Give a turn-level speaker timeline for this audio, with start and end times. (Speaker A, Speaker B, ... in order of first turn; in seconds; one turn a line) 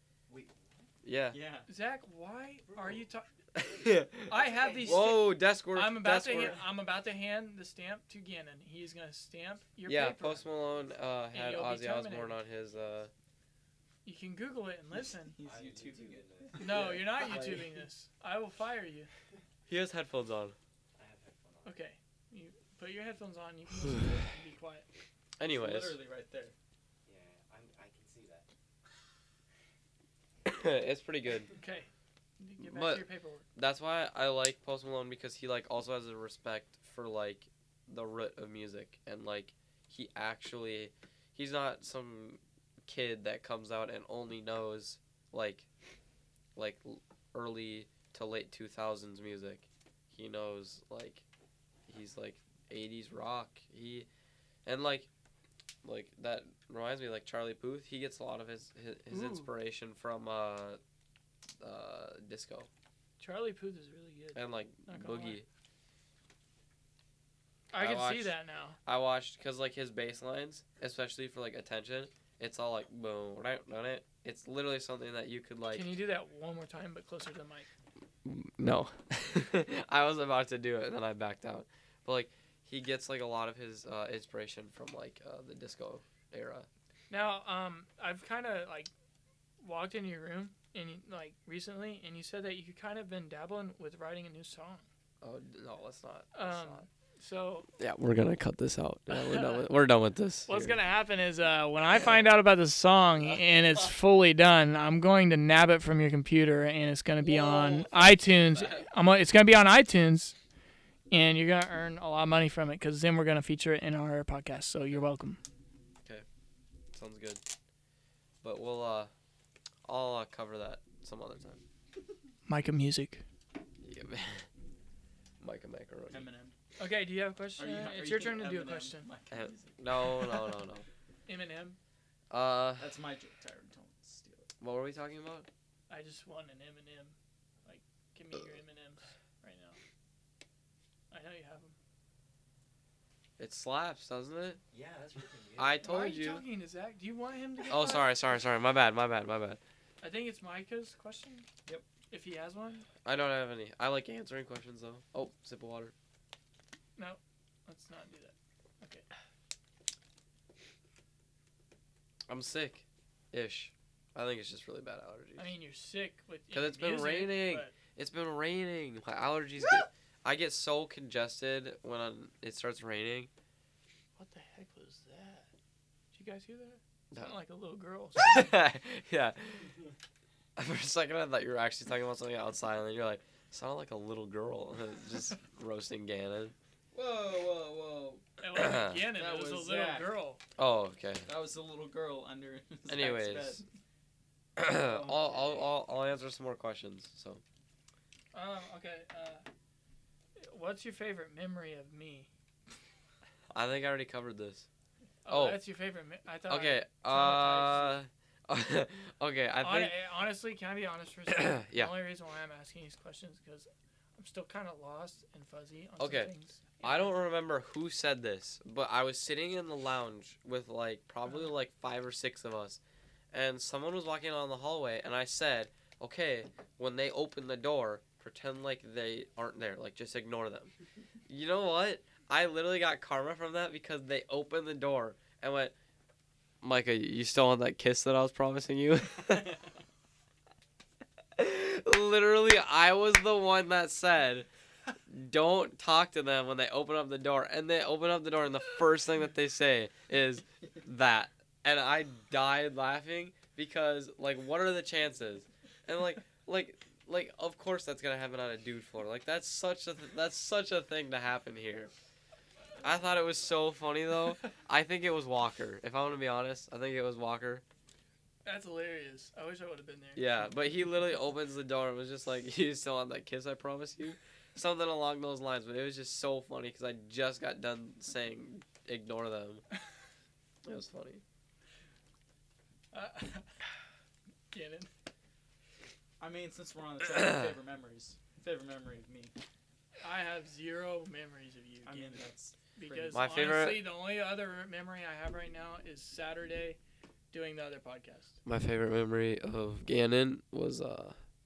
Speaker A: 0.3-0.9
Speaker B: 1.0-1.4
Speaker C: 1.3-1.7
Speaker D: 1.7-3.3
Speaker A: 2.7-3.0
Speaker B: 3.5-6.6
Speaker A: 3.6-5.2
Speaker D: 4.3-10.5
Speaker B: 9.8-13.1
Speaker D: 11.3-12.4
Speaker D: 14.0-15.4
Speaker C: 15.2-16.9
Speaker A: 15.4-16.9
Speaker D: 16.6-19.1
Speaker B: 17.2-17.6
Speaker B: 19.7-20.6
Speaker A: 21.0-21.8
Speaker D: 21.6-24.9
Speaker B: 25.4-26.0
Speaker C: 25.4-26.5
Speaker A: 27.1-28.5
Speaker B: 30.4-31.5
Speaker D: 31.6-33.4
Speaker B: 32.6-45.7
Speaker B: 46.5-51.2
Speaker B: 51.9-54.1
Speaker B: 54.6-55.1
Speaker B: 55.8-60.8
Speaker D: 59.1-59.5
Speaker B: 61.6-62.7
Speaker D: 63.2-65.4
Speaker B: 64.3-65.5
Speaker D: 67.7-68.8
Speaker B: 67.7-75.9
Speaker D: 75.7-77.7
Speaker B: 78.2-86.7
Speaker D: 87.1-88.9
Speaker D: 89.6-94.8
Speaker B: 95.2-96.8
Speaker D: 96.3-97.7
Speaker B: 97.8-100.8
Speaker D: 99.1-99.7
Speaker D: 100.5-110.3
Speaker B: 107.3-108.8
Speaker D: 111.1-115.4
Speaker B: 116.9-117.4
Speaker B: 118.4-119.1
Speaker B: 119.8-121.6
Speaker D: 122.5-123.2
Speaker B: 123.8-124.5
Speaker B: 125.4-126.3
Speaker C: 126.1-126.5
Speaker D: 126.8-129.1
Speaker C: 127.6-130.5
Speaker B: 129.3-130.8
Speaker D: 131.3-131.8
Speaker B: 132.3-132.9
Speaker C: 132.8-134.5
Speaker B: 134.6-135.5
Speaker D: 135.9-137.1
Speaker D: 137.6-139.8
Speaker D: 141.1-141.7
Speaker B: 143.4-144.6
Speaker A: 144.7-145.9
Speaker B: 145.6-146.4
Speaker D: 145.8-148.1
Speaker B: 147.7-149.6
Speaker D: 150.0-151.5
Speaker D: 152.1-152.9
Speaker B: 153.0-155.9
Speaker D: 156.9-159.0
Speaker B: 162.3-165.5
Speaker D: 165.4-167.7
Speaker B: 166.5-173.3
Speaker D: 174.2-175.5
Speaker D: 176.1-178.6
Speaker B: 177.1-177.4
Speaker B: 178.2-179.7
Speaker B: 180.6-186.5
Speaker C: 186.9-188.2
Speaker D: 188.4-190.4
Speaker B: 188.5-189.1
Speaker C: 189.1-190.1
Speaker B: 190.6-191.3
Speaker C: 191.2-193.6
Speaker B: 192.9-193.6
Speaker B: 194.6-197.4
Speaker C: 194.8-195.6
Speaker D: 198.3-199.4
Speaker D: 200.4-202.3
Speaker B: 203.5-204.7
Speaker D: 205.2-208.0
Speaker B: 205.3-205.6
Speaker B: 206.5-209.9
Speaker D: 209.6-217.1
Speaker B: 211.3-211.9
Speaker B: 216.0-216.3
Speaker B: 216.8-222.8
Speaker B: 223.3-230.7
Speaker B: 231.3-235.7
Speaker B: 236.6-239.6
Speaker B: 241.4-244.5
Speaker B: 245.1-261.9
Speaker B: 262.8-267.6
Speaker D: 268.4-270.3
Speaker B: 270.1-279.6
Speaker B: 280.6-281.2
Speaker D: 282.9-283.5
Speaker D: 284.5-284.9
Speaker C: 286.2-289.3
Speaker B: 287.1-287.5
Speaker D: 290.0-296.8
Speaker C: 291.8-293.2
Speaker B: 293.1-293.9
Speaker D: 297.3-298.4
Speaker B: 298.4-301.2